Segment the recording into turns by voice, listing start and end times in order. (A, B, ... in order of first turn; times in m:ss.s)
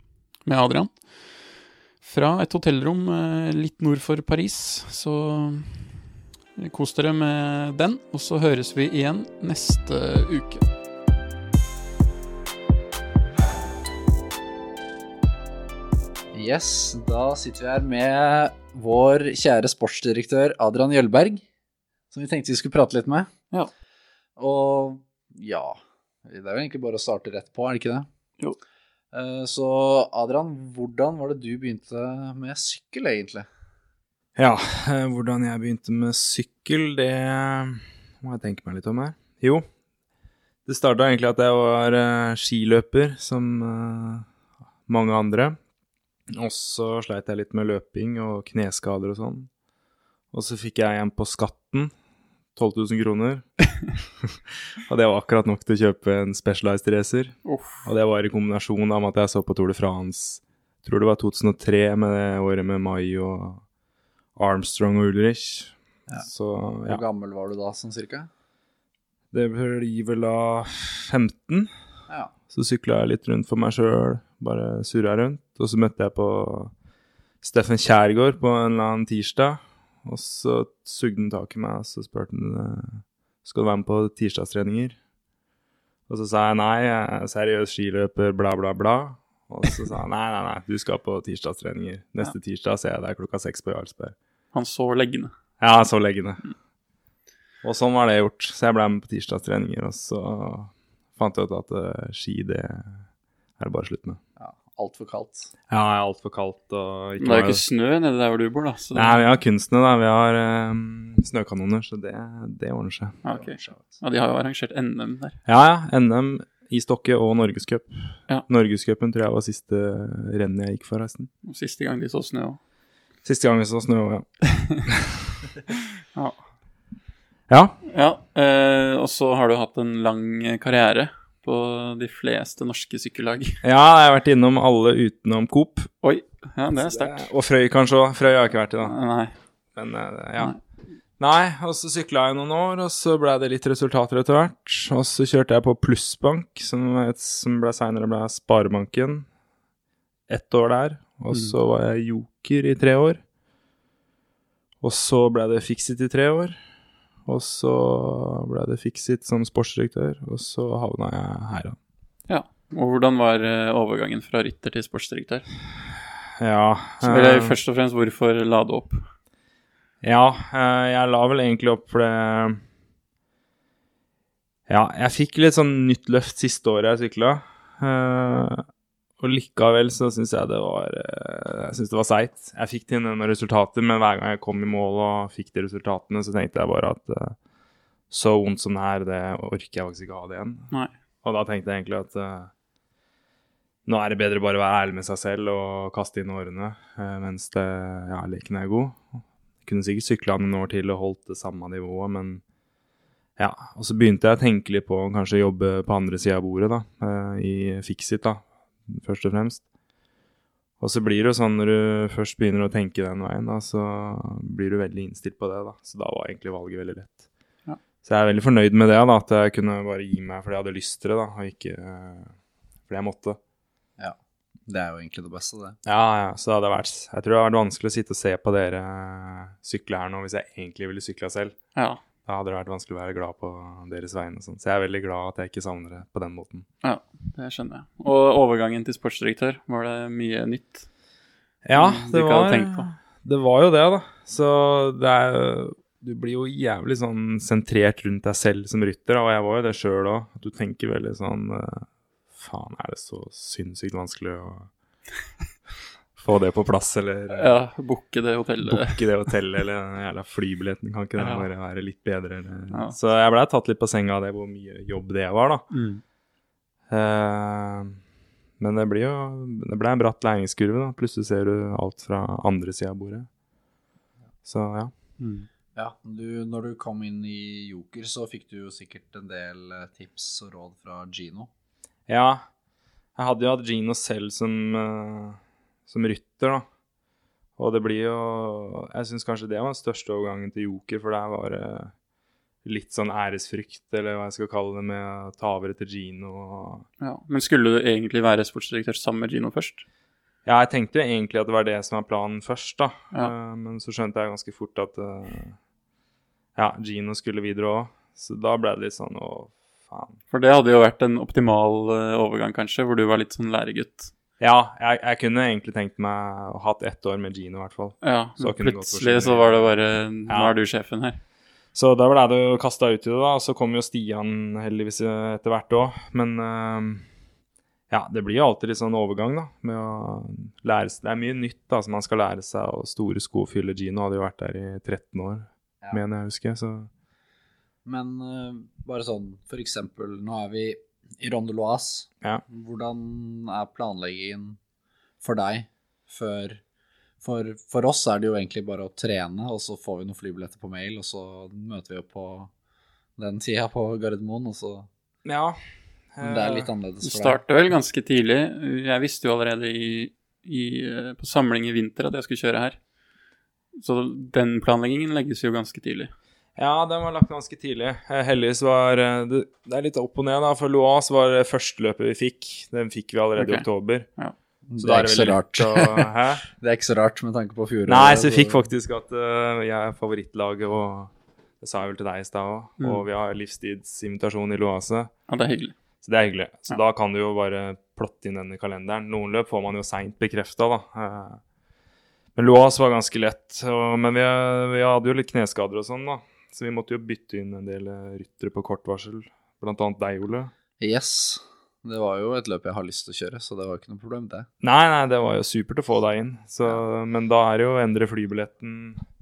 0:00.4-0:06.0 A
0:06.6-0:10.6 A
0:16.3-0:21.4 B
0:22.1-0:23.3 B
0:24.4-0:28.1 B
0:29.1-0:33.5 B
0:34.4-0:39.6 C
0:40.6-0:44.3 C
0:44.9-0:45.6 C
0:46.3-0:49.5 C
0:50.3-0:51.9 C
0:52.6-0:53.5 C
0:54.8-1:03.6 C
0:57.4-0:57.9 A
1:04.3-1:07.0 C
1:06.8-1:08.3 B
1:09.3-1:11.7 C
1:12.1-1:12.3 B
1:12.5-1:16.7 C
1:17.4-1:25.0 C
1:26.1-1:34.1 C
1:34.5-1:35.3 A
1:35.6-1:36.4 C
1:37.6-1:43.0 C
1:43.6-1:44.2 C
1:44.4-1:45.5 B
1:45.7-1:47.6 C
1:47.2-1:49.2 A
1:48.9-1:53.2 C
1:53.2-1:55.4 A
1:53.2-1:54.0 B
1:55.4-2:01.3 C
2:01.4-2:02.6 A
2:03.2-2:05.4 C
2:07.5-2:07.8 C
2:07.9-2:13.6 A
2:13.6-2:15.9 C
2:16.0-2:17.3 A
2:16.8-2:19.0 C
2:18.8-2:19.3 A
2:19.7-2:20.6 C
2:21.2-2:29.3 C
2:30.3-2:33.2 C
2:34.8-2:36.6 C
2:37.2-2:41.8 C
2:42.3-2:45.5 A
2:46.4-2:47.5 C
2:47.0-2:49.0 A
2:50.0-2:52.6 C
2:54.7-2:58.6 C
2:59.2-3:07.4 C
3:08.1-3:10.7 C
3:11.2-3:12.5 C
3:13.8-3:22.4 C
3:23.4-3:29.6 C
3:30.8-3:37.2 C
3:38.0-3:43.4 C
3:44.7-3:45.8 B
3:45.8-3:51.6 C
3:51.7-3:52.0 A
3:52.2-3:56.6 C
3:56.8-4:00.8 A
4:01.6-4:14.7 C
4:01.7-4:02.9 A
4:16.2-4:17.5 C
4:17.3-4:19.0 A
4:18.6-4:25.7 C
4:21.2-4:21.5 A
4:22.7-4:23.0 A
4:25.7-4:26.0 A
4:26.9-4:28.0 C
4:28.6-4:33.3 C
4:34.4-4:34.9 C
4:35.2-4:35.5 A
4:35.8-4:41.5 B
4:42.1-4:42.5 C
4:43.1-4:46.6 C
4:47.6-4:51.9 C
4:52.6-4:56.8 C
4:57.0-4:59.8 A
5:00.4-5:05.6 C
5:06.6-5:10.2 C
5:10.3-5:14.1 A
5:14.4-5:19.7 C
5:18.0-5:21.2 A
5:20.3-5:20.5 C
5:21.7-5:27.1 C
5:27.9-5:36.9 C
5:37.8-5:44.6 B
5:45.2-5:46.6 B
5:47.2-5:52.5 B
5:53.2-5:54.9 B
5:55.2-5:55.6 C
5:56.1-5:56.7 C
5:56.2-5:57.4 B
5:57.0-6:02.8 A
6:03.8-6:06.1 A
6:06.6-6:14.1 C
6:13.4-6:13.6 A
6:14.7-6:18.6 B
6:14.8-6:16.4 C
6:17.8-6:25.1 C
6:25.3-6:25.7 A
6:26.0-6:31.4 C
6:32.3-6:40.5 C
6:40.8-6:44.5 B
6:44.6-6:49.0 C